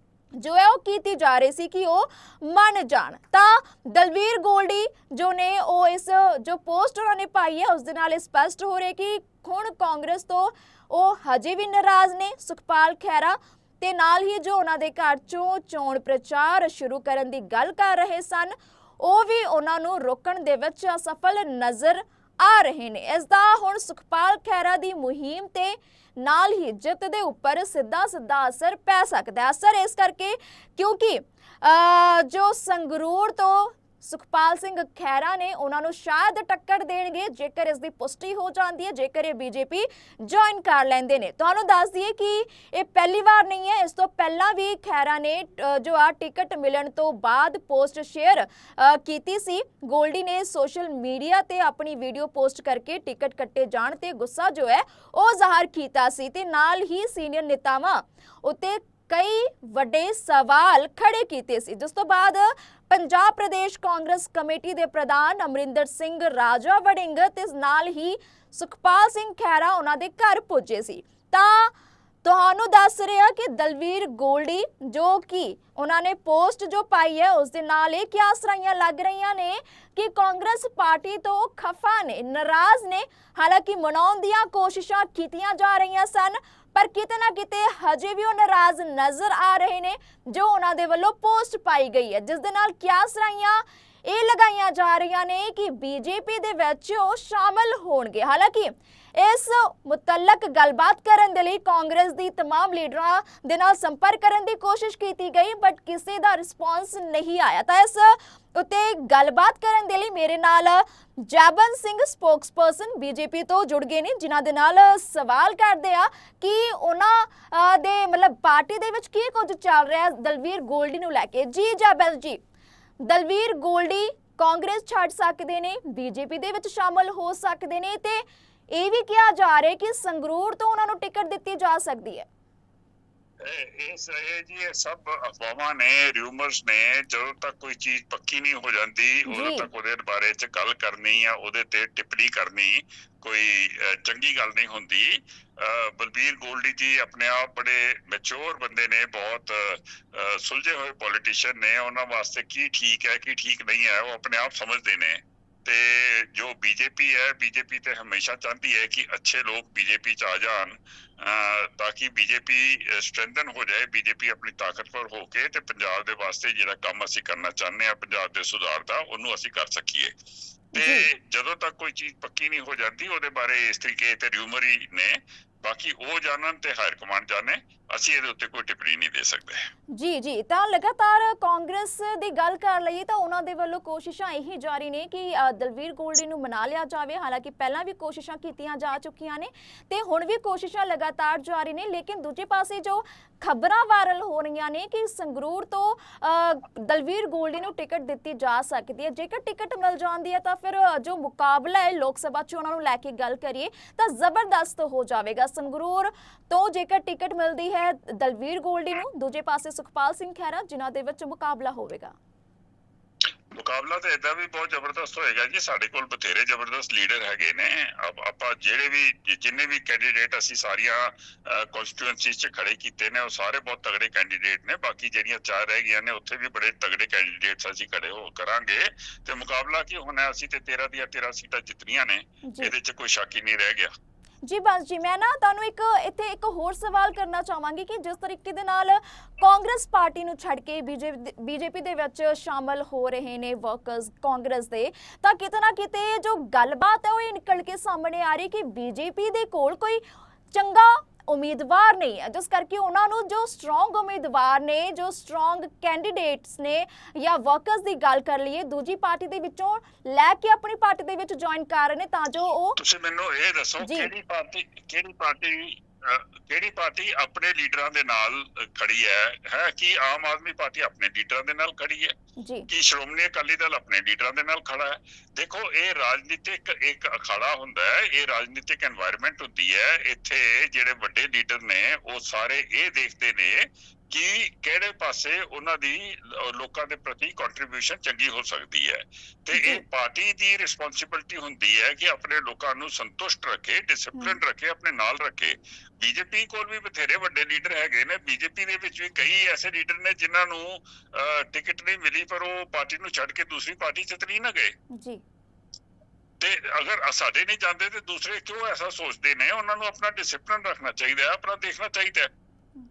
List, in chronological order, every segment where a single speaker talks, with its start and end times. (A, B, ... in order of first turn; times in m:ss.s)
0:00.4-2:02.4 A
2:03.0-2:12.3 A
2:13.4-2:50.1 B
2:19.3-2:19.7 A
2:50.7-2:59.7 B
2:50.8-2:51.1 A
2:59.9-3:32.1 A
3:33.5-3:53.9 B
3:52.4-3:52.7 A
3:54.4-4:22.8 A
4:22.8-4:32.1 B
4:23.8-4:24.1 A
4:32.4-4:32.6 A
4:32.7-5:04.7 B
4:49.5-4:49.8 A
5:04.9-5:05.2 A
5:06.4-5:12.3 B